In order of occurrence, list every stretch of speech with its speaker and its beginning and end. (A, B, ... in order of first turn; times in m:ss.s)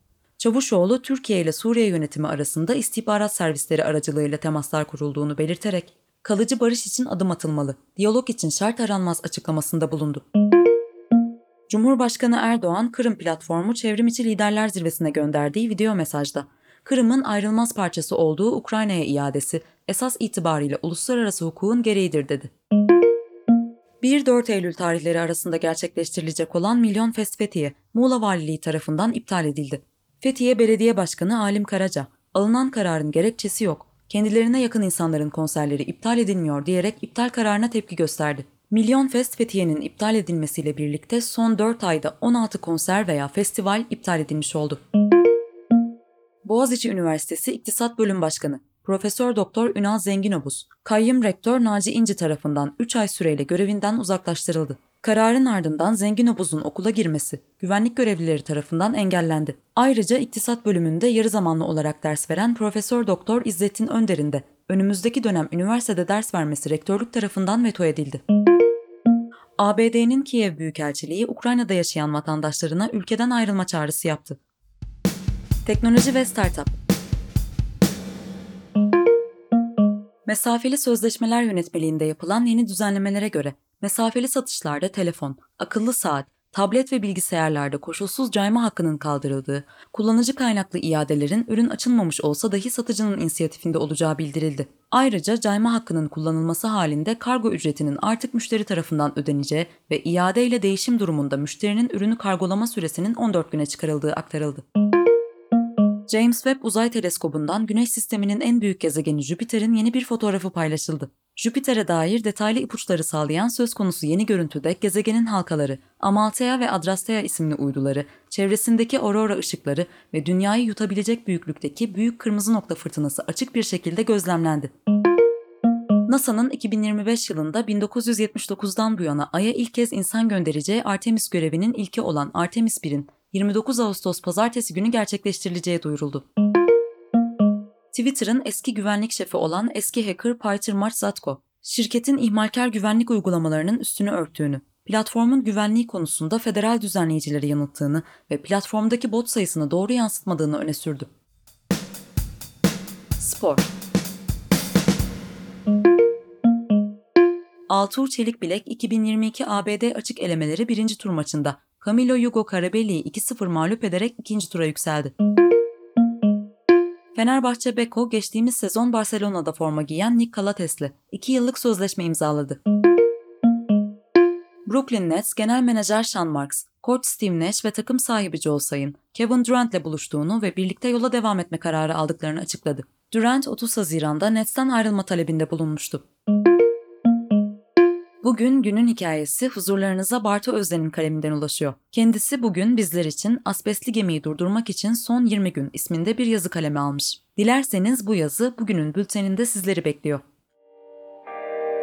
0:00.4-0:10.2 A
0:11.7-0:22.5 A
0:24.0-0:44.8 A
0:46.4-1:08.2 A
1:09.6-1:14.4 A
1:15.6-1:16.7 A
1:20.2-1:44.6 A
1:46.1-2:04.7 A
2:06.1-2:16.2 A
2:17.9-2:31.1 A
2:33.2-2:33.7 A
2:37.7-2:45.1 A
2:47.1-2:52.6 A
2:54.6-3:06.0 A
3:08.2-3:20.2 A